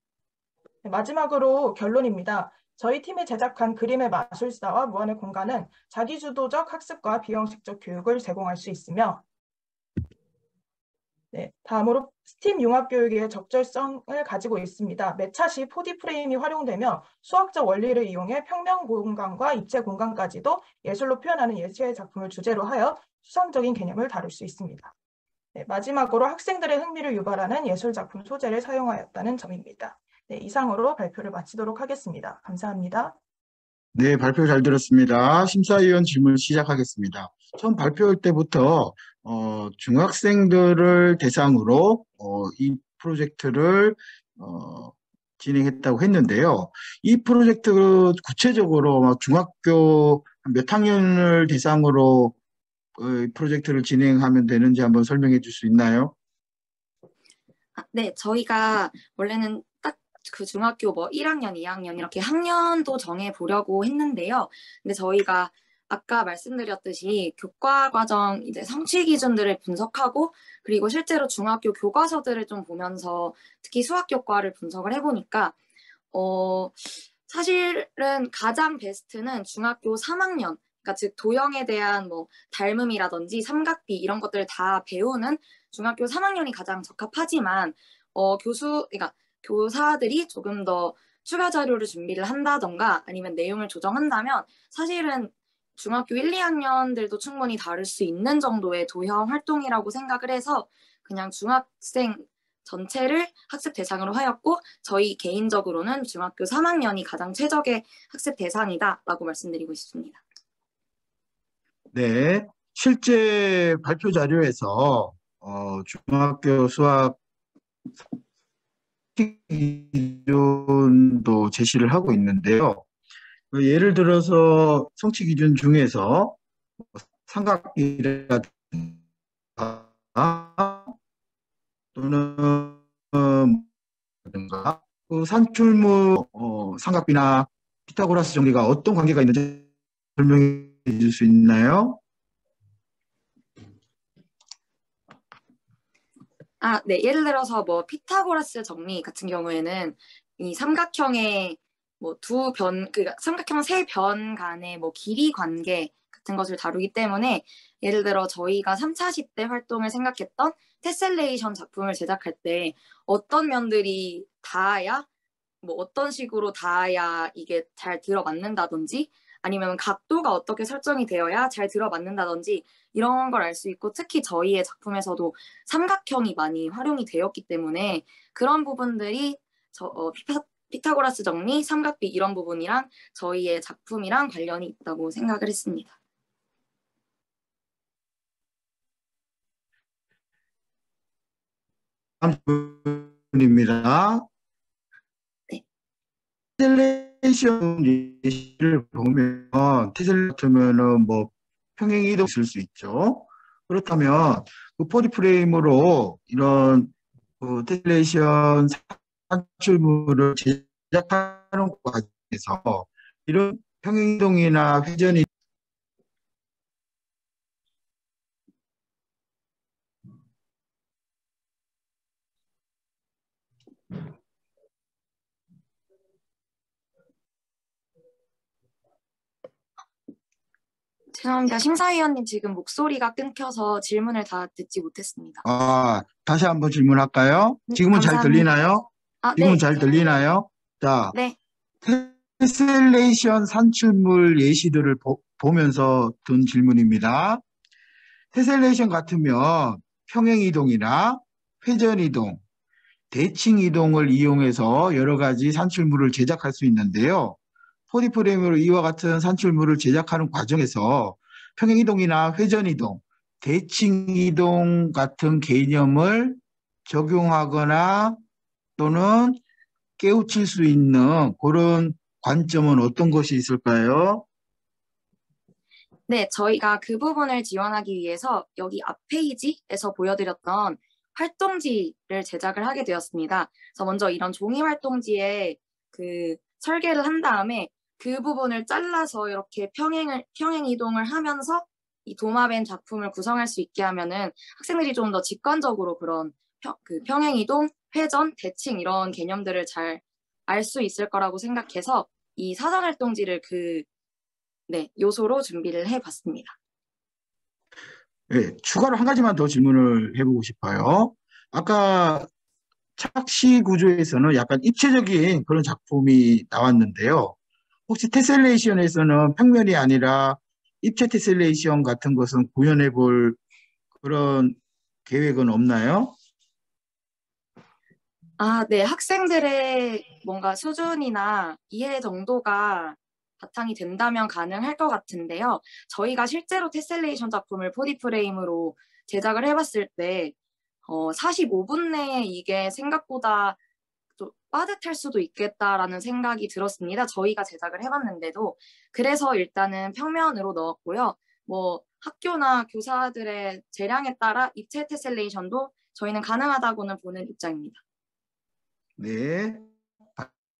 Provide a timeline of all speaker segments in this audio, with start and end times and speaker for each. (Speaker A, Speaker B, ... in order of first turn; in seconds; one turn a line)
Speaker A: 0.8-9.2
Speaker A: 11.3-24.9
Speaker A: 25.5-33.2
Speaker B: 33.9-52.4
Speaker B: 53.0-56.1
Speaker C: 57.8-75.5
Speaker C: 76.1-110.2
Speaker B: 111.9-117.2
Speaker B: 119.2-122.8
Speaker B: 123.5-126.4
Speaker B: 126.9-129.0
Speaker B: 129.6-130.9
Speaker B: 131.9-133.7
Speaker B: 134.3-142.0
Speaker C: 146.6-165.1
Speaker C: 165.6-185.9
Speaker B: 192.2-194.2
Speaker B: 196.6-215.3
Speaker C: 231.1-235.4
Speaker B: 235.4-241.1
Speaker C: 237.7-238.5
Speaker C: 239.2-239.7
Speaker C: 241.1-241.4
Speaker B: 241.8-247.4
Speaker B: 248.3-252.4
Speaker B: 253.1-257.4
Speaker B: 257.9-268.2
Speaker B: 268.8-269.4
Speaker B: 270.0-274.2
Speaker C: 276.1-303.9
Speaker C: 304.7-306.6
Speaker B: 308.3-312.3
Speaker B: 313.0-317.4
Speaker B: 317.9-323.4
Speaker B: 324.0-326.1
Speaker C: 328.4-340.3
Speaker C: 340.9-343.6
Speaker C: 344.2-357.8
Speaker B: 359.0-360.3